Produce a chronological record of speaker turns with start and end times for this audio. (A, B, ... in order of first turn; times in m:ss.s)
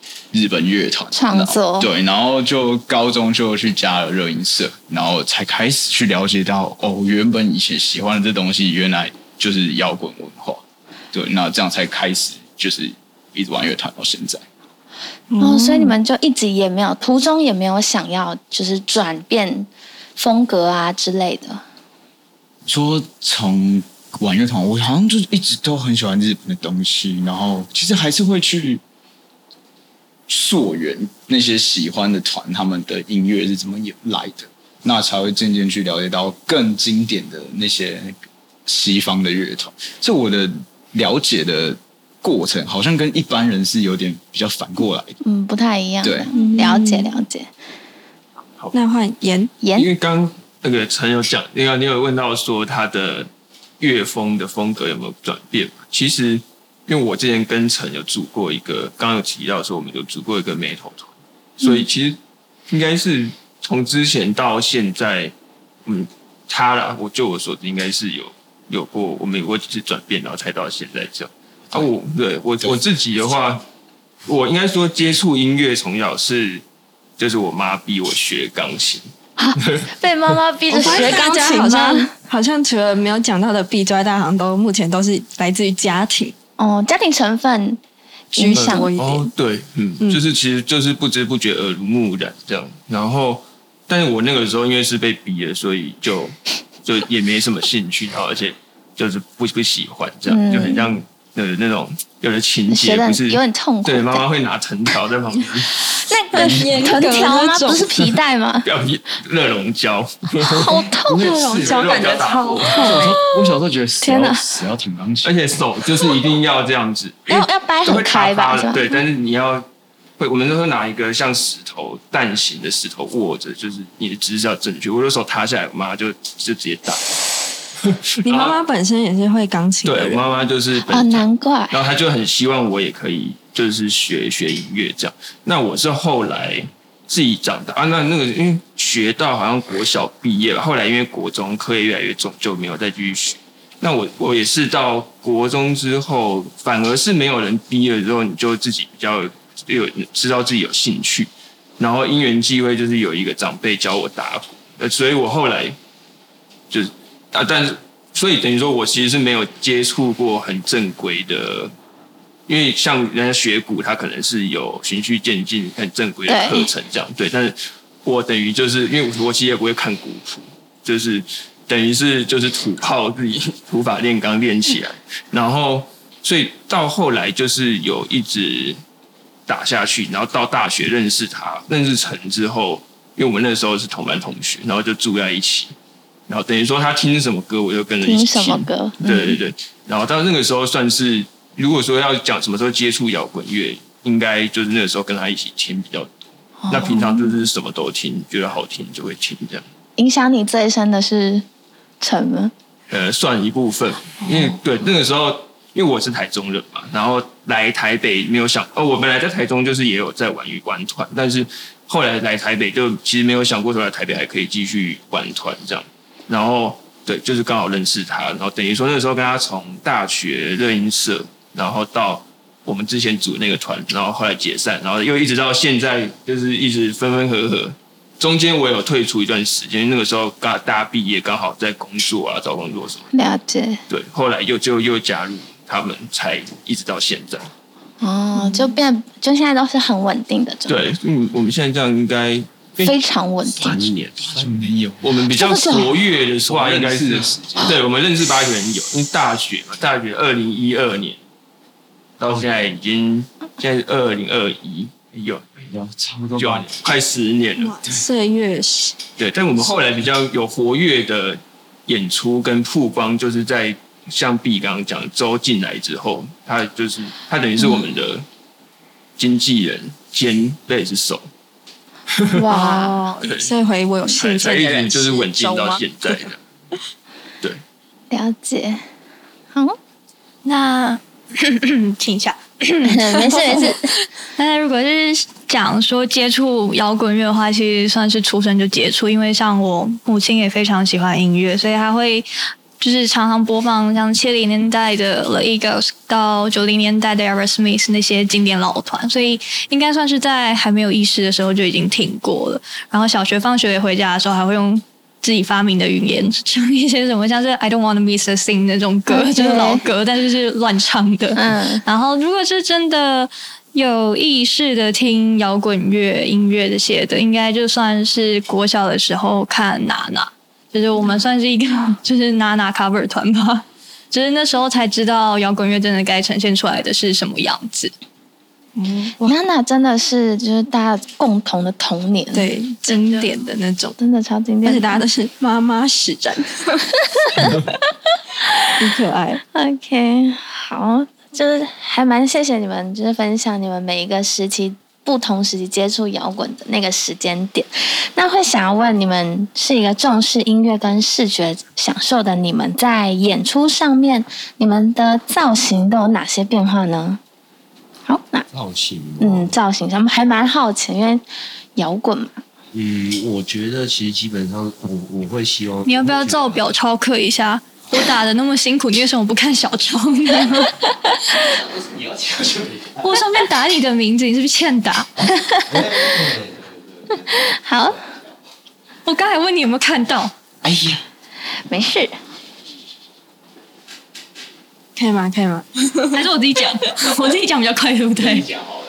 0:00.3-0:14.4 A
0:01.1-0:01.9 B
0:15.3-0:16.0 C
0:15.4-0:21.6 B
0:22.7-0:28.8 A
0:30.3-0:45.2 A
0:45.2-0:47.5 B
0:46.0-0:46.3 A
0:46.3-0:47.1 C
0:48.7-0:49.5 C
0:49.6-0:49.9 B
0:49.8-0:53.3 D
0:53.8-1:02.2 D
1:02.7-1:05.3 D
1:05.9-1:13.6 D
1:14.2-1:16.6 D
1:17.2-1:19.9 D
1:19.4-1:22.1 B
1:20.7-1:26.3 C
1:20.8-1:21.2 D
1:26.6-1:27.8 B
1:28.3-1:28.9 B
1:28.4-1:29.3 C
1:28.5-1:45.8 D
1:40.3-1:40.9 B
1:42.7-1:44.2 B
1:45.9-1:48.7 B
1:46.3-1:48.0 C
1:48.6-1:53.0 D
1:50.4-1:51.4 B
1:51.1-1:52.1 A
1:51.1-1:53.6 C
1:52.7-1:55.3 A
1:54.0-1:54.4 B
1:55.2-1:59.7 D
1:57.3-1:58.9 B
2:00.2-2:07.2 D
2:07.8-2:08.6 D
2:08.2-2:10.3 C
2:09.8-2:35.8 D
2:10.9-2:11.8 B
2:36.7-2:41.7 D
2:42.5-2:58.8 D
2:46.3-2:46.7 B
2:59.5-3:05.7 D
3:06.3-3:16.1 D
3:08.0-3:09.4 B
3:16.6-3:17.4 B
3:16.7-3:19.7 D
3:20.0-3:21.4 B
3:22.0-3:22.5 B
3:22.9-3:53.1 D
3:53.1-3:53.8 B
3:53.9-3:57.5 D
3:58.0-4:00.8 B
4:00.7-4:02.7 D
4:02.8-4:03.9 B
4:03.5-4:04.6 E
4:04.2-4:05.0 A
4:05.0-4:11.2 D
4:05.3-4:06.0 B
4:06.5-4:07.8 A
4:12.2-4:15.6 D
4:15.7-4:16.8 A
4:16.4-4:17.8 D
4:17.6-4:19.0 C
4:19.2-4:28.2 D
4:29.2-4:31.2 D
4:32.1-4:32.5 D
4:32.3-4:33.0 B
4:32.5-4:35.8 C
4:33.2-4:33.5 D
4:34.1-4:36.4 D
4:38.1-4:38.8 B
4:40.4-4:43.7 F
4:42.8-4:43.9 B
4:44.4-4:52.3 F
4:52.8-5:27.9 F
5:09.1-5:09.8 B
5:11.4-5:11.8 B
5:28.8-5:29.4 C
5:29.2-5:32.5 B
5:32.3-5:34.0 C
5:32.9-5:33.4 F
5:34.0-5:35.0 B
5:34.6-5:37.6 C
5:38.8-5:39.4 C
5:39.5-5:57.2 B
5:58.1-5:58.5 B
5:58.5-5:59.6 E
5:59.2-6:01.2 B
6:01.8-6:02.4 B
6:02.7-6:06.7 E
6:05.8-6:10.8 F
6:12.0-6:12.9 E
6:13.0-6:15.1 F
6:15.4-6:15.8 B
6:15.7-6:16.7 E
6:17.2-6:18.0 B
6:19.1-6:20.3 F
6:20.6-6:21.0 A
6:21.7-6:22.2 B
6:25.0-6:26.2 C
6:26.1-6:28.5 F